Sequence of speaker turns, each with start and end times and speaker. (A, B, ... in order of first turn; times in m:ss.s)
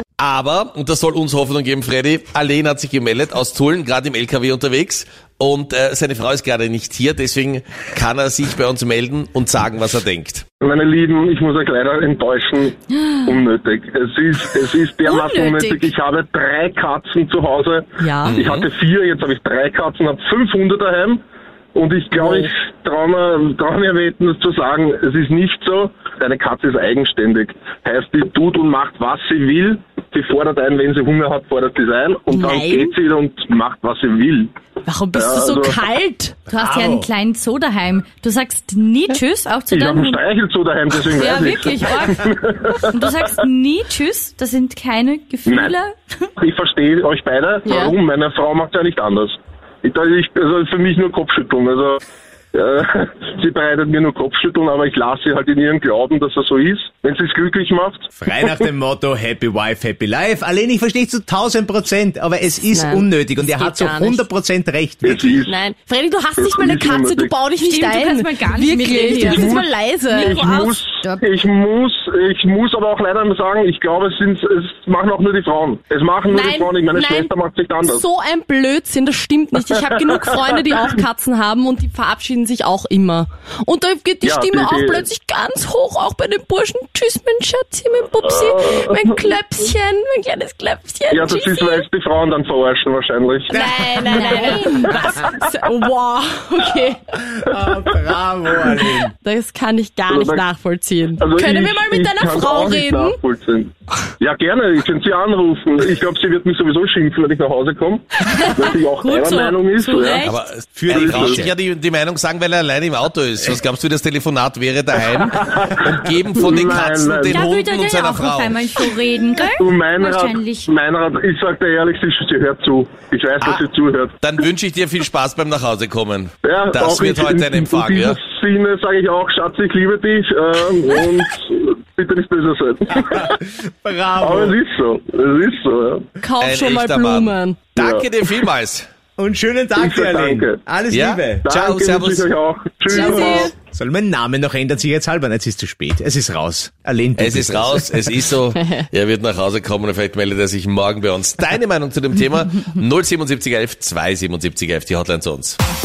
0:00.2-0:10.4 A
0:10.6-0:21.2 B
0:15.0-0:15.9 C
0:18.0-0:18.4 D
0:18.2-0:18.6 A
0:21.7-0:34.5 B
0:22.1-0:22.5 D
0:32.3-0:32.9 D
0:34.8-0:36.4 D
0:35.1-0:35.8 B
0:36.5-0:40.2 C
0:36.6-0:37.1 E
0:39.7-0:42.8 B
0:41.1-0:46.3 C
0:45.5-0:45.7 B
0:46.4-0:52.0 B
0:47.6-0:47.9 D
0:52.5-0:58.1 B
0:58.2-1:05.3 E
1:02.7-1:04.2 D
1:05.0-1:05.5 B
1:05.4-1:10.8 D
1:06.4-1:07.3 B
1:07.6-1:11.2 C
1:09.2-1:18.0 B
1:16.3-1:31.9 D
1:24.2-1:25.1 B
1:31.1-1:33.6 B
1:33.5-1:37.2 D
1:33.5-1:34.0 E
1:34.0-1:35.0 C
1:37.2-1:39.1 E
1:39.2-1:43.2 D
1:40.1-1:40.4 B
1:41.2-1:50.3 B
1:48.2-1:49.5 D
1:49.0-1:50.4 C
1:50.2-1:58.7 A
1:50.7-1:51.5 E
1:50.9-1:51.4 B
1:55.4-1:55.7 B
1:56.3-1:57.4 B
1:57.3-2:00.7 C
1:59.3-2:04.1 B
2:04.2-2:08.2 A
2:06.4-2:13.3 B
2:12.9-2:14.6 E
2:14.2-2:16.0 B
2:16.2-2:17.7 D
2:16.4-2:18.9 A
2:17.8-2:18.1 B
2:19.2-2:21.8 E
2:19.8-2:20.6 B
2:20.9-2:22.3 A
2:21.4-2:23.5 B
2:22.9-2:23.5 D
2:22.9-2:28.0 E
2:27.2-2:35.6 A